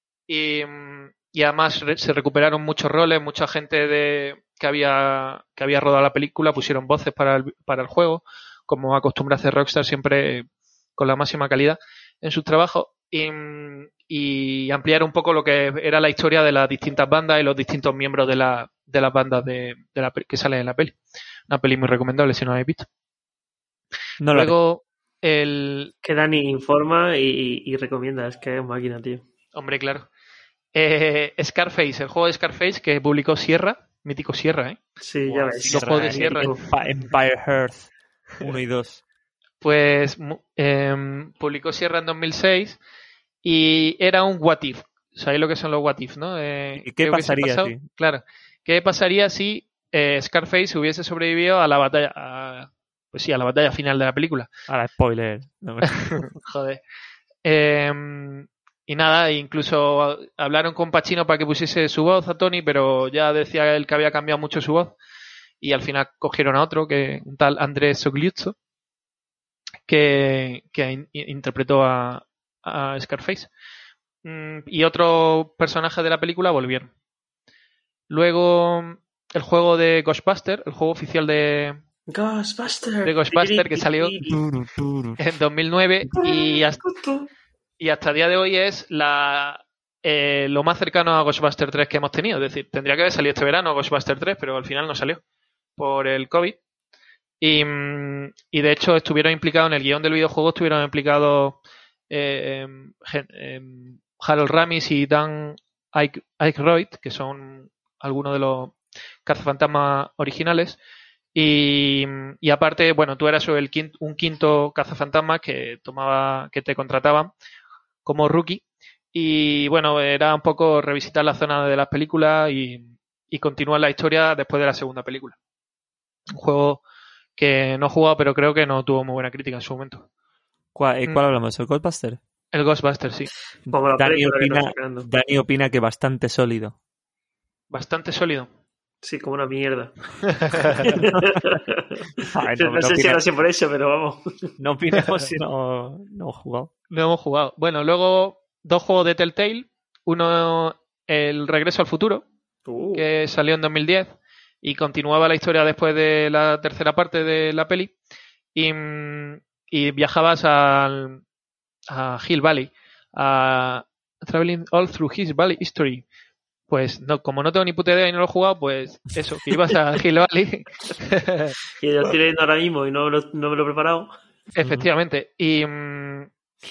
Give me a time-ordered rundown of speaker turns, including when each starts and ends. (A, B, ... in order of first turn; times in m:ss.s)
0:00.3-0:21.0 A
0:21.5-0:22.9 A
0:24.2-0:24.5 B
0:24.3-0:25.9 A
0:26.0-0:29.2 C
0:29.6-0:30.1 A
0:30.7-0:36.6 A
0:35.0-0:36.6 C
0:35.7-0:37.9 B
0:38.4-0:39.0 B
0:39.6-0:42.8 A
0:43.4-0:54.5 A
0:46.8-0:47.8 B
0:54.7-0:56.3 B
0:55.8-0:56.8 A
0:57.4-1:04.9 A
1:05.6-1:08.6 A
1:09.9-1:13.5 A
1:14.2-1:16.9 A
1:18.1-1:21.8 A
1:22.1-1:24.4 C
1:23.0-1:24.1 A
1:24.3-1:25.2 B
1:25.2-1:26.9 A
1:26.2-1:27.3 C
1:27.8-1:35.2 A
1:35.8-1:36.6 A
1:37.4-1:41.6 A
1:42.1-1:50.8 A
1:51.3-1:57.3 A
1:58.0-1:58.6 A
1:59.1-2:05.4 A
2:06.3-2:06.8 A
2:07.4-2:10.1 A
2:10.8-2:12.2 B
2:12.5-2:13.3 A
2:13.7-2:16.8 B
2:13.7-2:15.1 C
2:17.7-2:18.5 A
2:19.0-2:24.2 C
2:20.4-2:21.0 A
2:21.0-2:21.3 B
2:22.3-2:23.2 B
2:24.6-2:26.7 B
2:26.9-2:32.2 A
2:32.7-2:33.0 C
2:33.0-2:37.9 A
2:38.6-2:41.2 A
2:41.9-2:46.0 A
2:46.7-2:51.6 A
2:51.8-2:54.1 C
2:54.6-2:54.9 B
2:54.6-2:56.3 A